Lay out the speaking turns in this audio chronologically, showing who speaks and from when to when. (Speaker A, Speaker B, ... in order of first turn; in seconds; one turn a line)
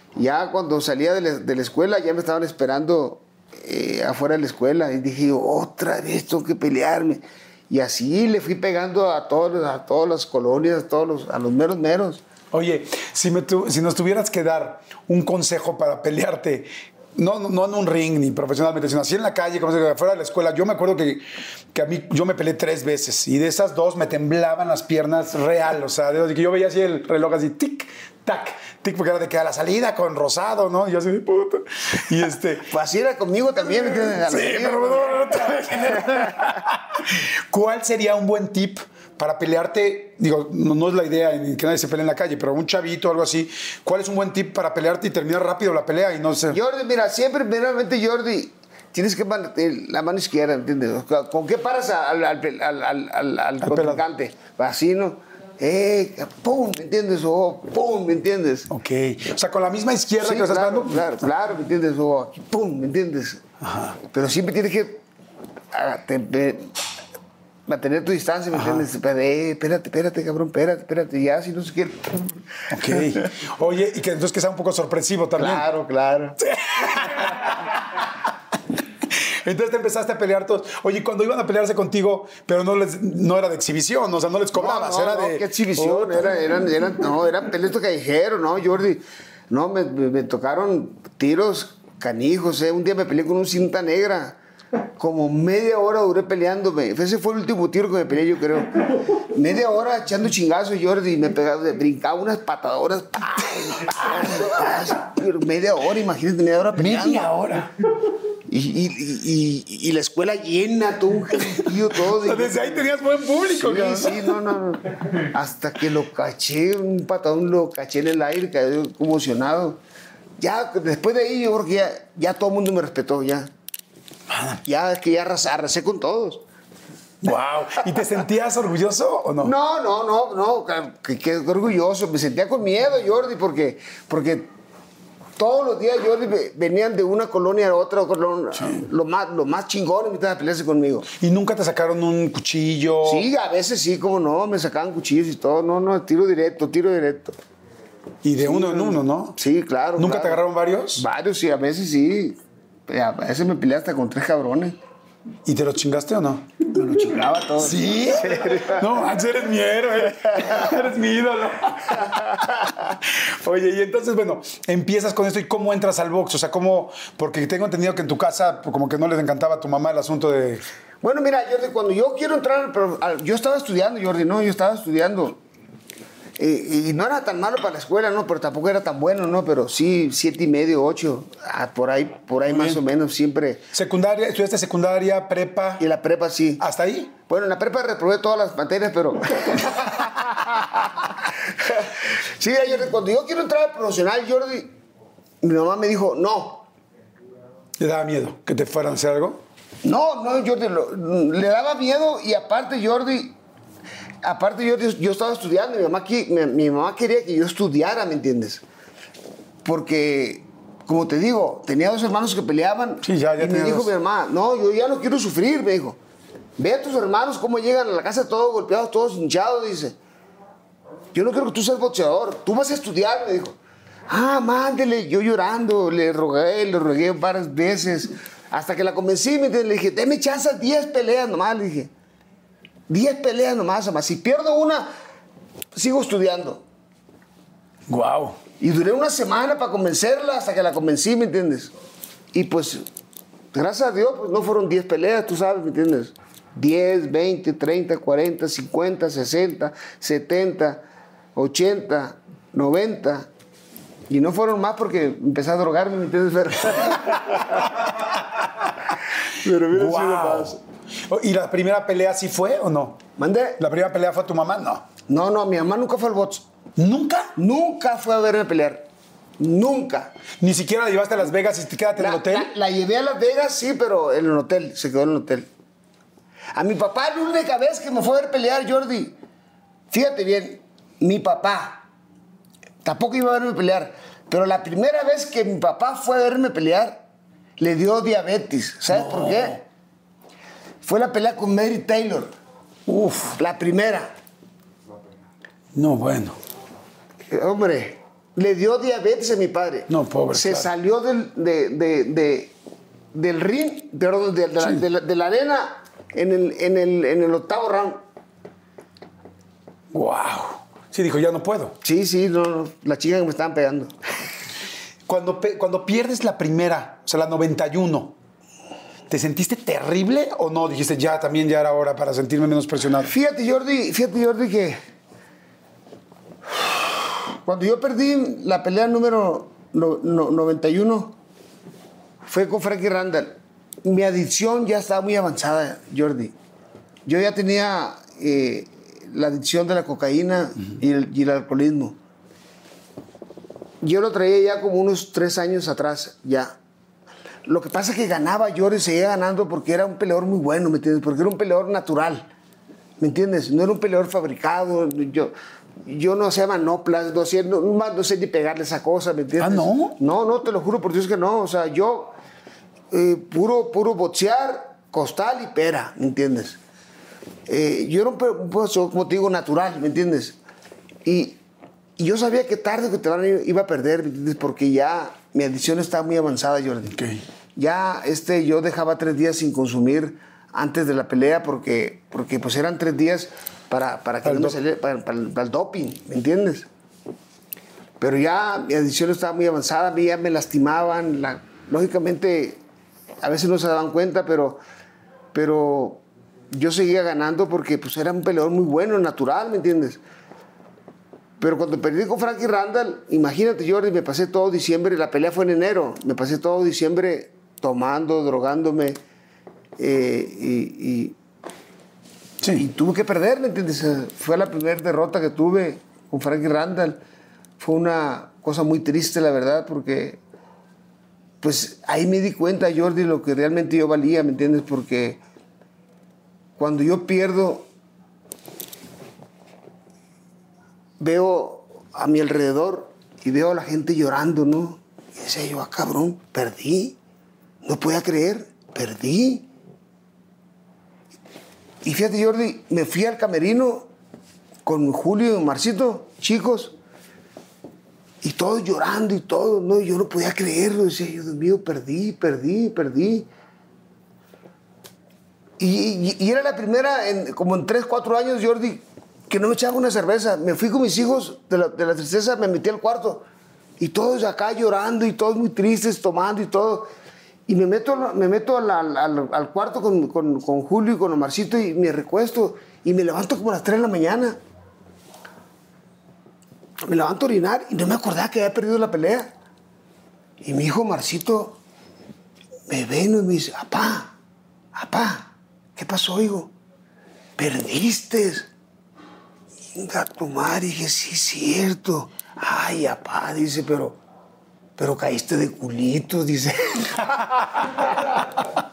Speaker A: 0.1-12.2
Speaker B: 12.5-32.7
Speaker A: 32.7-36.5
Speaker B: 33.8-46.6
Speaker A: 46.5-58.7
Speaker B: 53.6-54.0
Speaker B: 58.7-61.2
Speaker A: 60.2-63.4
Speaker B: 63.6-64.0
Speaker A: 64.0-65.0
Speaker A: 65.7-66.7
Speaker A: 67.7-73.2
Speaker B: 68.5-68.9
Speaker B: 72.7-75.6
Speaker A: 75.4-76.4
Speaker B: 76.4-78.1
Speaker B: 79.0-86.4
Speaker A: 84.5-94.4
Speaker A: 95.0-107.3
Speaker B: 103.8-104.8
Speaker B: 106.8-107.7
Speaker A: 108.5-112.9
Speaker B: 111.5-114.3
Speaker A: 113.5-119.8
Speaker A: 120.4-123.5
Speaker B: 124.3-124.6
Speaker A: 124.6-126.4
Speaker B: 127.2-129.5
Speaker A: 127.8-128.0
Speaker A: 129.4-134.5
Speaker A: 135.4-141.1
Speaker B: 138.6-138.8
Speaker B: 141.2-143.3
Speaker A: 143.0-147.4
Speaker B: 148.2-149.4
Speaker A: 148.4-150.4
Speaker B: 150.0-151.0
Speaker A: 150.9-154.8
Speaker B: 155.4-170.6
Speaker A: 156.7-158.9
Speaker A: 160.3-160.7
Speaker A: 162.0-162.8
Speaker A: 171.0-175.4
Speaker A: 176.4-183.6
Speaker B: 182.5-182.8
Speaker B: 183.7-185.8
Speaker A: 185.8-186.6
Speaker B: 186.6-187.1
Speaker A: 187.3-194.7
Speaker A: 195.4-196.7
Speaker B: 197.8-199.4
Speaker A: 199.8-203.4
Speaker A: 204.2-208.6
Speaker A: 209.6-216.0
Speaker B: 213.0-213.9
Speaker A: 216.6-219.9
Speaker A: 221.1-223.6
Speaker A: 224.1-231.9
Speaker A: 232.9-234.9
Speaker A: 235.7-236.6
Speaker B: 237.9-238.4
Speaker A: 238.6-241.7
Speaker A: 242.3-242.8
Speaker A: 243.5-250.8
Speaker A: 251.3-253.3
Speaker A: 254.1-257.8
Speaker B: 257.5-258.7
Speaker A: 259.2-260.6
Speaker B: 259.7-263.0
Speaker A: 263.2-263.6
Speaker B: 263.6-264.9
Speaker A: 265.1-266.4
Speaker B: 266.8-267.3
Speaker A: 267.4-268.9
Speaker A: 269.4-270.1
Speaker B: 270.4-272.5
Speaker A: 272.0-275.5
Speaker A: 276.6-279.1
Speaker A: 279.9-281.8
Speaker A: 282.8-287.0
Speaker A: 287.6-289.6
Speaker B: 288.9-289.6
Speaker A: 290.8-292.3
Speaker B: 292.9-293.4
Speaker A: 293.4-294.1
Speaker B: 295.7-296.4
Speaker A: 297.3-302.5
Speaker B: 299.9-300.7
Speaker A: 303.1-308.0
Speaker B: 309.9-311.8
Speaker A: 311.8-313.9
Speaker B: 315.1-318.1
Speaker B: 319.1-323.1
Speaker A: 323.0-324.8
Speaker A: 326.6-331.1
Speaker A: 332.2-336.3
Speaker A: 337.1-341.9
Speaker A: 343.8-346.6
Speaker A: 347.4-352.3
Speaker A: 353.0-355.3
Speaker A: 355.8-362.1
Speaker B: 359.4-360.0
Speaker A: 362.9-366.6
Speaker A: 367.5-370.4
Speaker A: 371.0-371.4
Speaker A: 372.0-377.0
Speaker B: 376.9-377.2
Speaker A: 377.6-386.7
Speaker B: 384.2-384.5
Speaker A: 388.0-392.6
Speaker A: 393.2-394.6
Speaker A: 395.3-400.0
Speaker A: 401.4-409.0
Speaker A: 409.8-411.1
Speaker B: 412.4-412.6
Speaker A: 412.5-417.0
Speaker A: 417.6-420.2
Speaker A: 421.4-425.2
Speaker A: 426.6-427.6
Speaker A: 431.0-437.0
Speaker A: 437.6-439.5
Speaker A: 441.8-443.9
Speaker A: 444.6-446.7
Speaker A: 448.2-453.3
Speaker A: 455.6-463.2
Speaker A: 463.8-466.9
Speaker A: 467.5-474.4
Speaker A: 476.9-479.3
Speaker A: 480.4-481.6
Speaker A: 482.7-484.1
Speaker A: 484.7-486.5
Speaker A: 487.4-488.5
Speaker A: 489.7-494.0
Speaker A: 494.8-497.4
Speaker B: 497.7-498.1